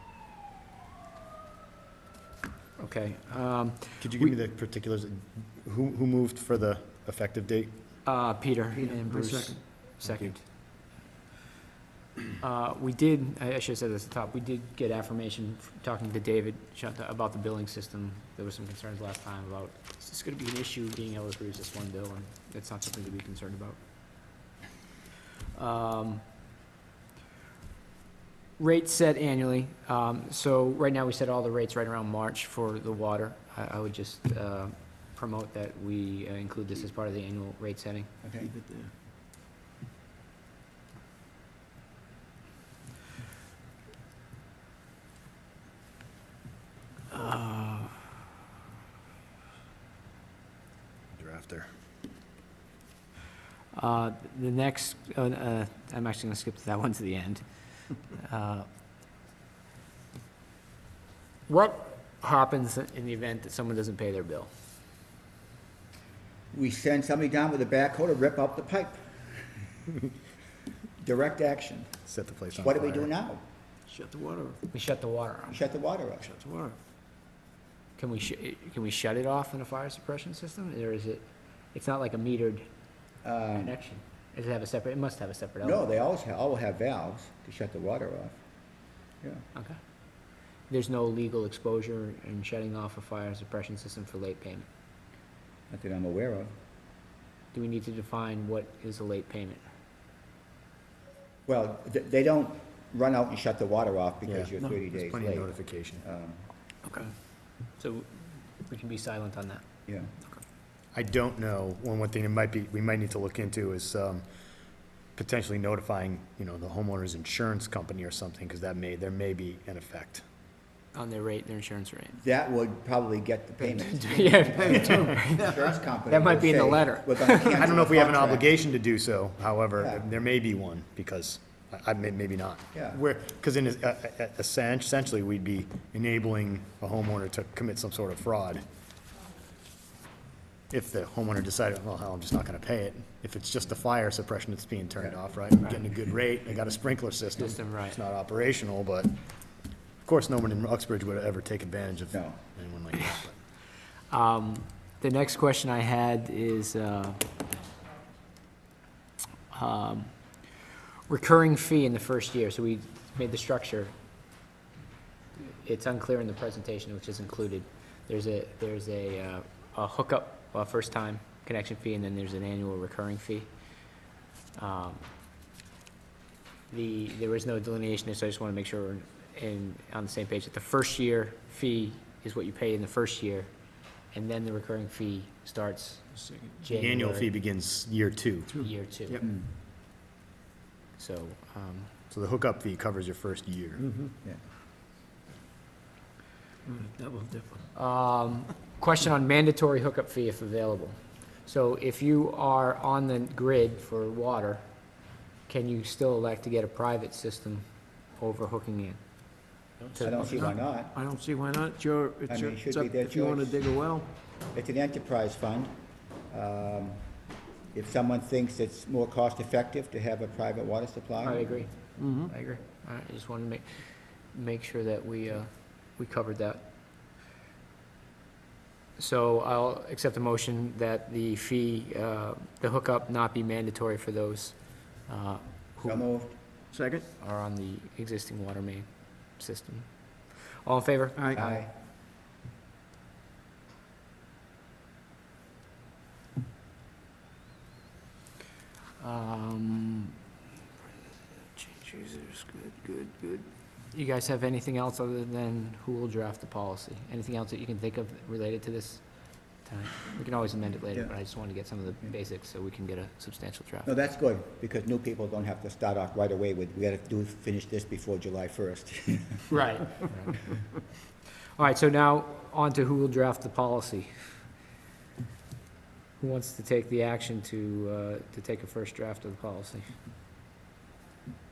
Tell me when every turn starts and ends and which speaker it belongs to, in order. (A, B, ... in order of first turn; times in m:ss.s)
0:02.8-0:04.3 A
0:04.0-0:07.7 B
0:08.0-0:10.4 A
0:08.8-0:09.6 C
0:10.0-0:10.3 B
0:12.4-0:23.8 A
0:25.5-0:26.2 A
0:28.6-0:38.1 A
0:38.2-0:38.5 D
0:38.4-0:38.9 C
0:47.1-0:48.0 A
0:51.1-0:51.7 B
0:53.7-0:57.4 A
0:58.1-0:58.7 A
1:01.5-1:04.5 A
1:06.5-1:09.6 D
1:11.0-1:11.9 D
1:12.0-1:13.1 B
1:12.6-1:13.4 D
1:13.9-1:14.6 C
1:14.7-1:15.6 A
1:15.5-1:16.3 D
1:16.2-1:16.8 C
1:18.0-1:22.6 A
1:23.2-1:23.7 D
1:23.6-1:25.8 A
1:25.6-1:28.4 D
1:30.7-1:34.7 A
1:35.7-1:36.5 D
1:37.5-1:39.6 A
1:41.5-1:46.4 D
1:44.2-1:46.0 B
1:46.8-1:47.1 A
1:47.8-1:48.1 A
1:48.6-1:49.6 A
1:50.9-1:54.2 B
1:55.2-2:00.2 B
2:00.9-2:02.2 A
2:02.2-2:08.5 D
2:03.6-2:07.7 A
2:04.4-2:05.2 C
2:07.5-2:18.6 B
2:09.8-2:10.0 D
2:12.7-2:13.0 D
2:20.7-2:29.2 B
2:27.4-2:28.0 A
2:30.0-2:33.4 B
2:32.1-2:32.4 D
2:34.1-2:37.2 A
2:39.5-2:40.1 A
2:41.1-2:43.9 A
2:45.4-2:53.5 A
2:54.6-2:55.0 A
2:56.7-3:03.5 A
3:04.1-3:07.3 A
3:06.2-3:06.6 C
3:06.7-3:08.6 B
3:08.5-3:09.2 C
3:08.6-3:09.2 A
3:09.2-3:09.5 D
3:11.0-3:11.9 A
3:12.1-3:13.9 B
3:13.8-3:14.1 C
3:16.6-3:17.6 C
3:17.7-3:24.6 A
3:25.5-3:27.6 A
3:28.2-3:29.0 A
3:29.9-3:30.4 A
3:30.0-3:31.0 D
3:30.2-3:34.1 C
3:32.3-3:33.6 D
3:34.5-3:35.7 D
3:36.3-3:37.1 D
3:37.7-3:41.5 D
3:41.2-3:46.6 A
3:42.0-3:42.3 C
3:49.0-3:56.0 A
3:55.8-3:56.3 D
3:56.7-3:57.0 C
3:57.2-3:59.8 A
4:00.6-4:01.6 A
4:01.2-4:01.4 C
4:01.3-4:01.7 D
4:09.0-4:10.1 A
4:11.5-4:19.0 A
4:19.6-4:23.9 A
4:23.8-4:29.5 D
4:29.5-4:30.6 A
4:31.6-4:34.1 A
4:36.2-4:39.9 A